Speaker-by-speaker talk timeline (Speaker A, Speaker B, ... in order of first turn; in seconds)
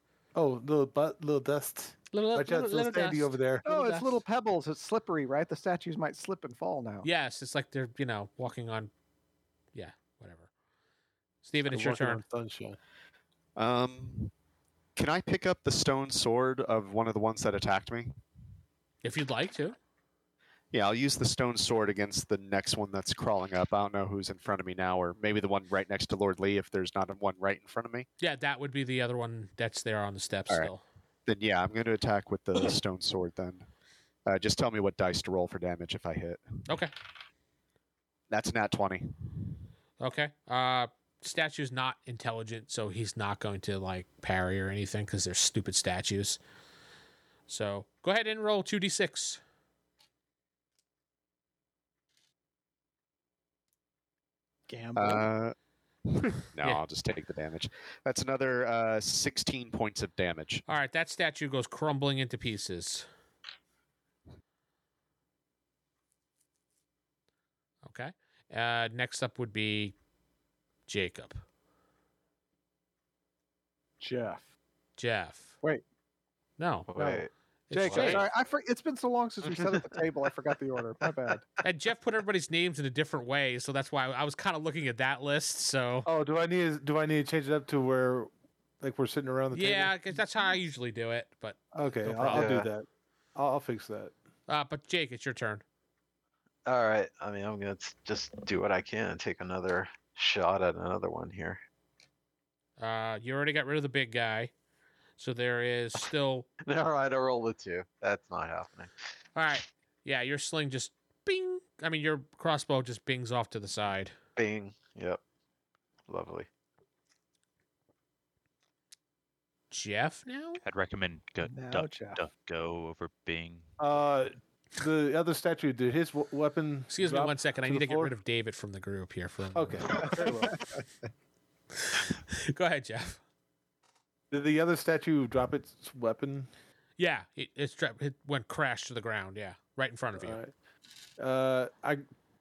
Speaker A: 0.3-3.7, 11.7-12.8, 77.7-78.2, 86.0-88.3, 88.8-89.9, 91.7-94.1, 123.8-128.1, 129.5-130.6, 134.3-136.5, 140.2-140.5, 141.2-142.0
Speaker B: 2.1-4.2, 7.0-8.9, 9.7-10.5, 11.4-12.2, 19.0-19.8, 28.2-30.8, 40.0-46.4, 47.5-49.4, 60.7-63.0, 67.8-69.9, 70.9-71.4, 75.0-75.5, 76.6-76.9, 77.7-78.2, 81.6-86.1, 89.5-92.5, 94.5-95.6, 102.8-104.5, 105.2-106.5, 109.3-114.1, 119.7-120.6, 126.9-130.4, 131.8-133.2, 137.0-140.4
Speaker C: 3.6-7.1, 54.7-55.3, 74.0-74.4, 77.0-77.2, 77.8-81.4, 121.5-122.2
Speaker D: 13.6-14.3, 14.9-18.1, 20.7-28.1, 31.2-33.7, 34.2-36.4, 38.3-39.1, 55.0-55.5, 56.1-60.6
Speaker E: 76.9-77.3, 77.9-78.2, 92.3-92.7, 96.7-101.6, 106.6-108.9, 114.4-115.2, 116.1-116.5
Speaker F: 120.6-123.7